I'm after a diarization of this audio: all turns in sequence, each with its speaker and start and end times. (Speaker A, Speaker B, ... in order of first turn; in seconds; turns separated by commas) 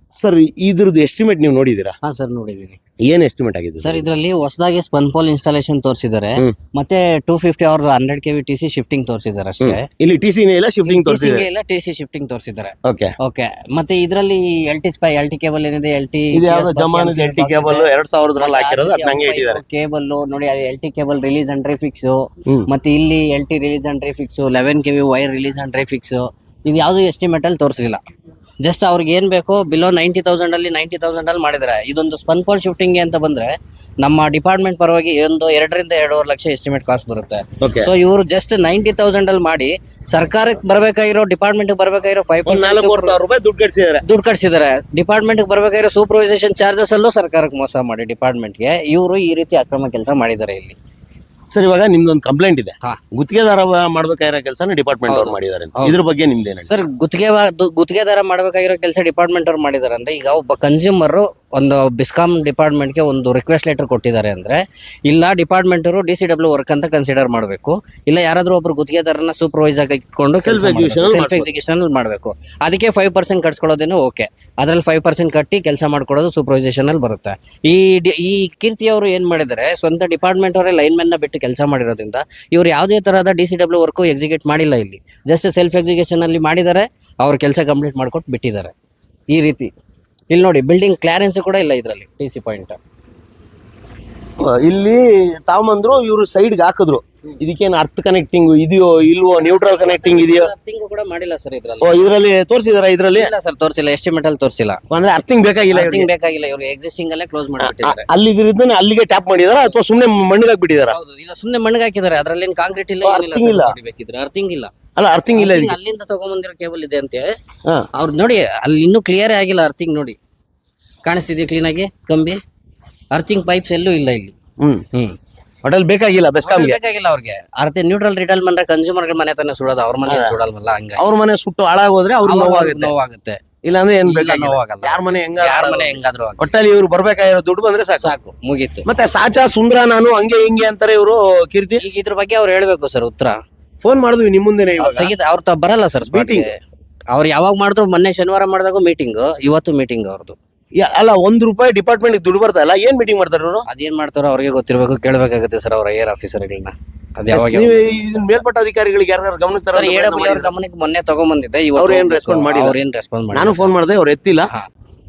Speaker A: 0.2-1.9, Speaker B: 2.0-2.8, Speaker A: 3.0-4.1, Speaker B: 3.8-9.8, Speaker A: 9.6-11.5, Speaker B: 10.9-28.0, Speaker A: 12.8-13.1, Speaker A: 16.3-19.6, Speaker B: 28.6-43.2, Speaker A: 37.6-37.9, Speaker A: 42.5-44.0, Speaker B: 44.0-50.8, Speaker A: 51.5-56.7, Speaker B: 55.1-56.0, Speaker B: 56.7-88.7, Speaker A: 70.4-71.5, Speaker B: 89.3-89.7, Speaker B: 90.3-92.8, Speaker A: 94.4-100.5, Speaker B: 99.4-102.0, Speaker A: 101.8-103.3, Speaker B: 103.1-104.8, Speaker A: 104.9-106.1, Speaker B: 105.7-108.1, Speaker A: 107.6-111.0, Speaker B: 110.9-114.7, Speaker A: 113.0-113.7, Speaker A: 115.0-115.8, Speaker B: 115.3-117.3, Speaker B: 118.0-120.2, Speaker B: 121.1-122.4, Speaker B: 123.1-124.3, Speaker A: 124.6-124.8, Speaker A: 125.6-126.8, Speaker B: 126.4-131.0, Speaker A: 130.1-130.3, Speaker A: 131.0-132.9, Speaker B: 132.3-133.4, Speaker A: 133.6-138.1, Speaker B: 134.1-136.5, Speaker B: 138.0-138.9, Speaker A: 138.8-141.8, Speaker B: 141.8-143.3, Speaker A: 143.8-145.1, Speaker B: 144.8-146.5, Speaker A: 146.1-146.5, Speaker B: 147.1-150.4, Speaker A: 150.8-153.7, Speaker B: 153.7-158.4, Speaker A: 157.3-160.5, Speaker B: 159.7-163.7, Speaker A: 161.8-162.8, Speaker A: 163.3-164.5